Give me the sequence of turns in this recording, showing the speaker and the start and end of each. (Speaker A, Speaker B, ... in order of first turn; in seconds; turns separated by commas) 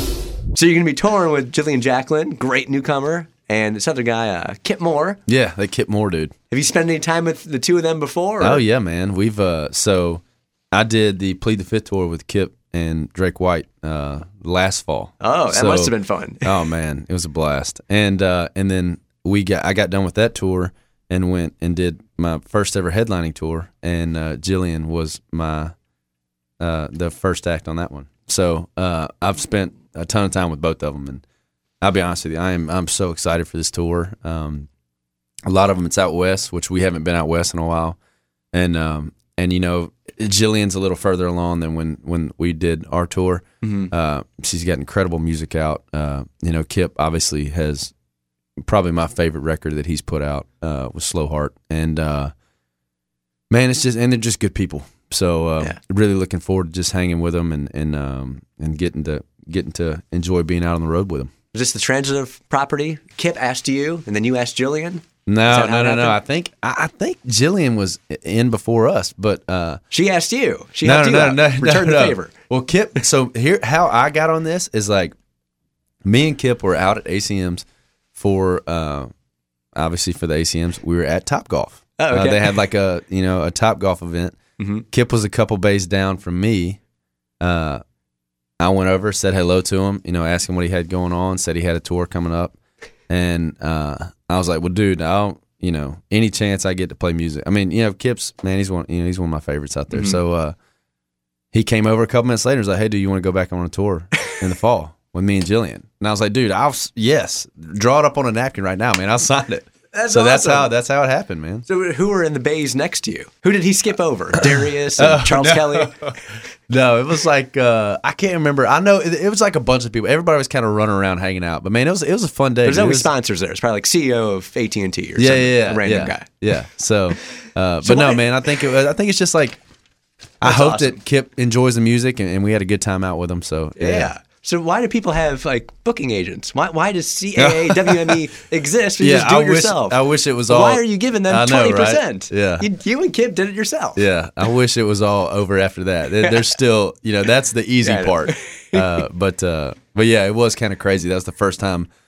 Speaker A: 0.5-5.2, Speaker B: 5.3-6.3, Speaker A: 6.5-8.6, Speaker B: 8.4-25.7, Speaker A: 15.2-16.6, Speaker B: 26.6-31.2, Speaker B: 31.8-34.7, Speaker B: 35.5-38.0, Speaker B: 38.5-47.9, Speaker A: 43.6-43.9, Speaker B: 48.6-52.3, Speaker B: 53.5-61.3, Speaker A: 61.5-66.2, Speaker B: 65.3-69.8, Speaker A: 69.9-72.3, Speaker B: 70.8-75.1, Speaker B: 76.0-79.1, Speaker B: 79.7-84.4, Speaker A: 82.0-82.5, Speaker A: 84.6-84.8, Speaker B: 84.9-86.8, Speaker B: 87.4-87.8, Speaker B: 88.6-92.5, Speaker B: 93.1-100.5, Speaker A: 99.9-100.2, Speaker B: 101.5-111.7, Speaker A: 109.9-110.7, Speaker A: 111.7-116.0, Speaker B: 114.4-116.2, Speaker B: 116.7-123.1, Speaker A: 122.6-126.3, Speaker B: 125.2-129.6, Speaker A: 127.8-128.7, Speaker B: 130.4-134.1, Speaker A: 130.4-131.0, Speaker A: 133.8-144.1, Speaker B: 137.4-138.2, Speaker B: 139.0-142.7, Speaker B: 143.9-151.9, Speaker A: 147.8-148.9